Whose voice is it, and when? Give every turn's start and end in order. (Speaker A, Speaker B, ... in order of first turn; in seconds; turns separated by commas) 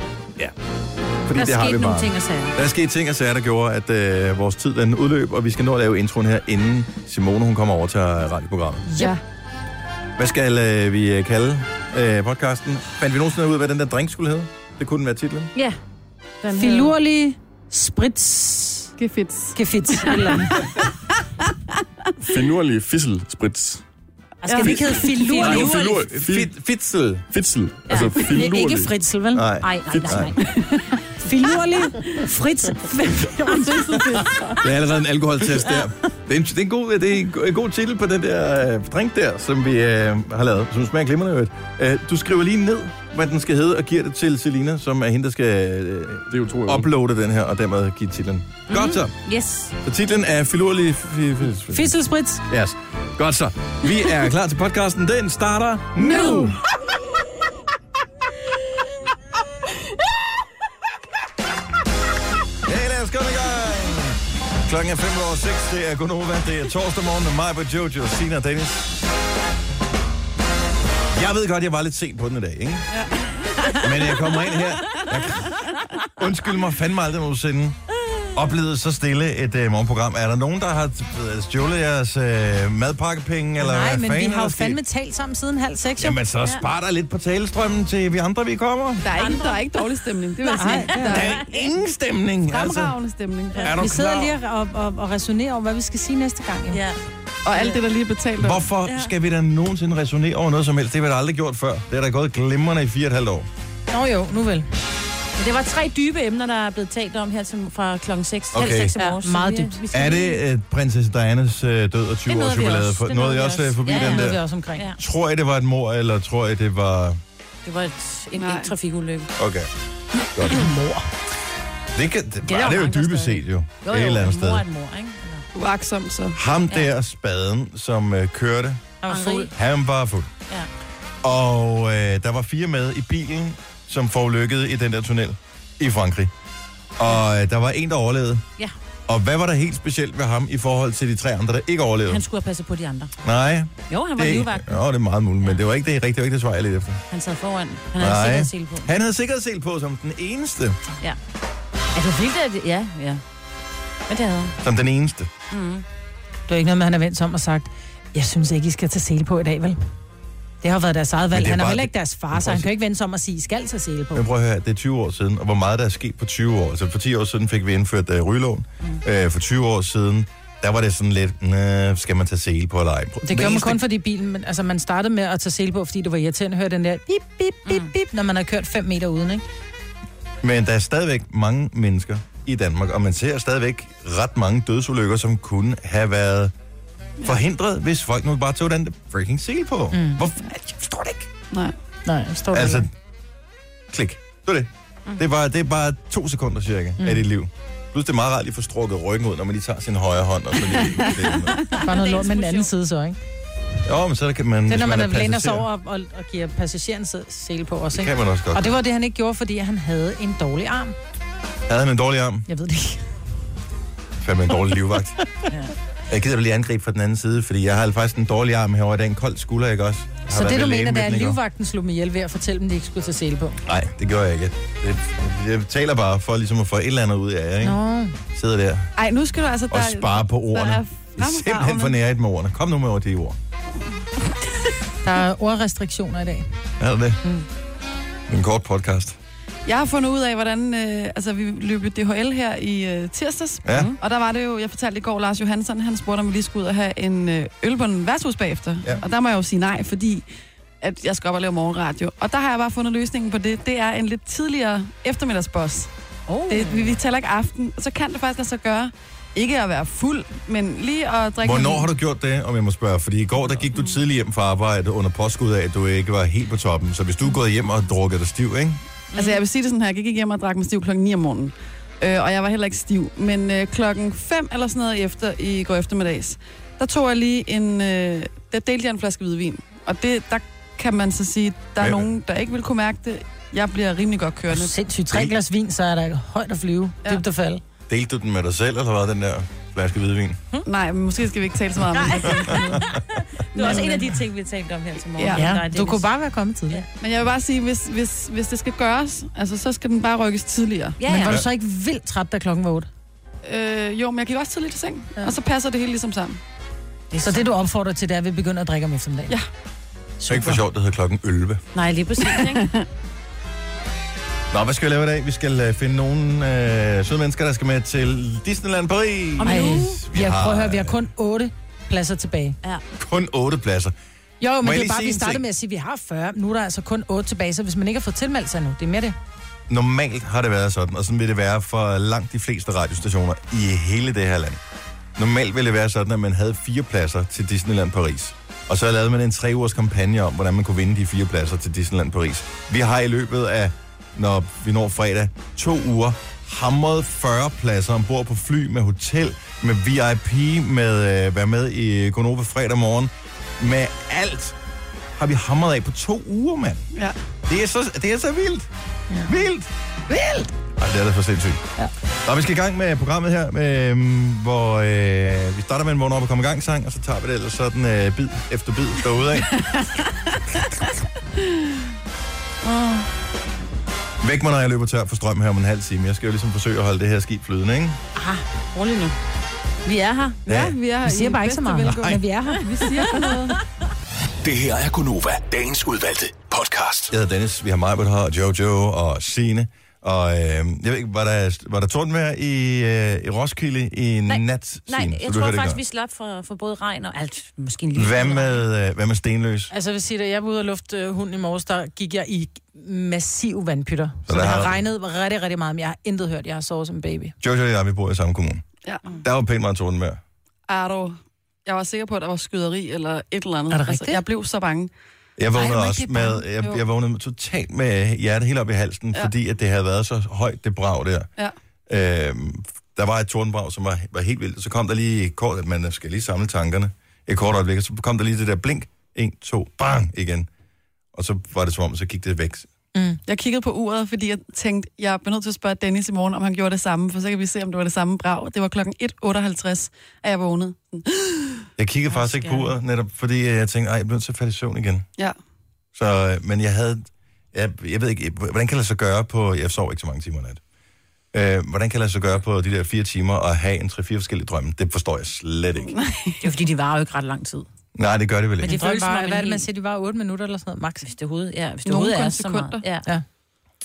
Speaker A: 1.2-8.9, Speaker B: 1.3-2.5, Speaker C: 8.9-9.2, Speaker A: 10.2-15.5, Speaker B: 16.4-16.9, Speaker D: 16.6-18.9, Speaker C: 19.0-20.5, Speaker D: 19.5-20.6, Speaker E: 22.2-23.8, Speaker D: 24.4-25.8, Speaker B: 24.5-26.1, Speaker C: 24.5-24.8, Speaker E: 24.6-24.9, Speaker E: 25.4-26.5, Speaker A: 25.7-27.3, Speaker E: 27.3-28.9, Speaker B: 27.9-28.2, Speaker D: 28.3-30.4, Speaker A: 29.3-30.3, Speaker B: 29.6-30.4, Speaker C: 30.4-30.9, Speaker D: 31.1-34.2, Speaker C: 33.5-34.6, Speaker A: 34.6-49.1, Speaker E: 46.3-46.9, Speaker B: 48.7-49.7, Speaker A: 49.8-52.0, Speaker D: 51.7-52.4, Speaker A: 52.5-56.6, Speaker C: 56.0-56.5, Speaker A: 62.6-68.9, Speaker A: 71.1-72.9, Speaker C: 72.9-73.7, Speaker A: 73.8-77.8, Speaker A: 78.3-84.8, Speaker D: 83.6-86.2, Speaker A: 86.0-89.1, Speaker C: 89.0-91.4, Speaker B: 89.1-91.3, Speaker D: 90.5-91.2, Speaker A: 91.0-92.9, Speaker C: 92.5-93.7, Speaker A: 93.6-94.4, Speaker D: 93.7-96.8, Speaker B: 96.7-97.0, Speaker C: 97.4-98.7, Speaker B: 97.5-97.8, Speaker A: 98.4-103.5, Speaker B: 98.8-99.1, Speaker D: 103.9-104.7, Speaker B: 105.4-110.4, Speaker A: 108.5-109.0, Speaker D: 109.0-109.8, Speaker A: 109.9-114.4, Speaker B: 112.3-115.0, Speaker D: 113.9-114.8, Speaker A: 115.0-117.2, Speaker B: 117.6-119.3, Speaker C: 118.4-118.7, Speaker A: 119.4-119.7, Speaker A: 120.3-120.6, Speaker D: 120.4-121.0, Speaker A: 121.9-124.6, Speaker B: 122.5-125.4, Speaker C: 125.5-126.4, Speaker A: 126.3-129.0, Speaker D: 129.0-129.5, Speaker B: 129.1-129.5, Speaker A: 129.5-130.3, Speaker A: 131.2-136.3, Speaker A: 137.0-138.4, Speaker A: 139.1-142.2, Speaker B: 142.1-143.1, Speaker A: 143.2-147.0, Speaker B: 143.9-144.8, Speaker B: 147.1-148.9, Speaker A: 148.0-150.8, Speaker B: 151.9-153.2, Speaker B: 154.1-154.6, Speaker A: 154.6-155.3, Speaker B: 155.5-155.8, Speaker D: 156.5-159.8, Speaker D: 160.6-164.2, Speaker A: 161.3-162.7, Speaker A: 164.1-173.8, Speaker D: 173.2-179.4, Speaker A: 180.4-186.5, Speaker A: 187.2-191.3, Speaker D: 189.9-190.2, Speaker D: 192.0-192.9, Speaker A: 192.5-192.9, Speaker A: 193.9-201.7, Speaker D: 197.0-197.2, Speaker B: 201.7-202.7, Speaker D: 201.8-203.2, Speaker A: 203.8-205.7, Speaker D: 204.7-210.9, Speaker A: 207.9-208.8, Speaker A: 211.7-212.5, Speaker D: 212.5-213.0, Speaker A: 214.2-215.2, Speaker A: 216.1-221.4, Speaker D: 220.3-223.6, Speaker A: 223.7-227.8, Speaker D: 227.6-228.2, Speaker A: 228.3-228.9, Speaker C: 229.0-231.9, Speaker A: 229.7-233.4, Speaker D: 235.0-236.4, Speaker A: 236.8-237.2, Speaker A: 238.3-239.2, Speaker C: 239.7-250.2, Speaker A: 243.6-243.9, Speaker C: 250.8-255.9, Speaker B: 256.3-257.0, Speaker C: 256.5-261.9, Speaker A: 261.4-268.8, Speaker B: 269.1-269.4, Speaker C: 269.1-284.7, Speaker A: 281.8-282.1, Speaker D: 284.5-287.6, Speaker A: 287.9-290.4, Speaker C: 290.6-293.0, Speaker B: 291.9-296.1, Speaker A: 292.2-293.1, Speaker C: 293.6-294.1, Speaker C: 295.2-295.5, Speaker D: 295.3-296.8, Speaker C: 297.0-301.0, Speaker B: 301.0-301.4, Speaker D: 301.1-302.9, Speaker C: 303.4-306.4, Speaker B: 307.1-307.4, Speaker D: 307.2-309.3, Speaker D: 310.2-310.6, Speaker A: 310.3-311.6, Speaker B: 311.7-312.6, Speaker C: 312.2-312.9, Speaker A: 314.5-321.1, Speaker B: 319.4-319.9, Speaker D: 319.4-322.6, Speaker A: 323.0-323.9, Speaker D: 324.4-329.1, Speaker A: 324.6-325.4, Speaker A: 329.7-334.6, Speaker A: 335.1-354.6, Speaker A: 355.1-356.9, Speaker A: 357.4-358.7, Speaker A: 359.2-361.7, Speaker A: 362.2-369.6, Speaker B: 372.6-373.1, Speaker A: 374.2-378.0, Speaker B: 378.1-379.1, Speaker B: 379.8-380.4, Speaker A: 380.4-380.8, Speaker C: 380.4-383.6, Speaker D: 381.0-382.7, Speaker A: 381.9-382.2, Speaker F: 384.4-387.1, Speaker A: 387.1-395.8, Speaker B: 394.3-398.6, Speaker A: 397.9-399.7, Speaker D: 399.7-407.4, Speaker A: 404.2-404.8, Speaker A: 407.4-408.6, Speaker A: 409.2-410.2, Speaker C: 410.7-414.9, Speaker D: 413.7-414.2, Speaker A: 415.4-421.3, Speaker D: 415.5-416.8, Speaker A: 421.9-430.5, Speaker A: 431.1-432.7, Speaker D: 432.9-433.2, Speaker C: 433.2-441.6, Speaker A: 441.8-445.1, Speaker B: 442.2-442.6, Speaker A: 445.9-450.6, Speaker A: 451.3-456.0, Speaker C: 455.9-456.4, Speaker B: 456.4-457.7, Speaker A: 457.9-458.8, Speaker B: 458.6-459.6, Speaker D: 458.6-461.1, Speaker B: 461.1-463.1, Speaker C: 461.8-462.8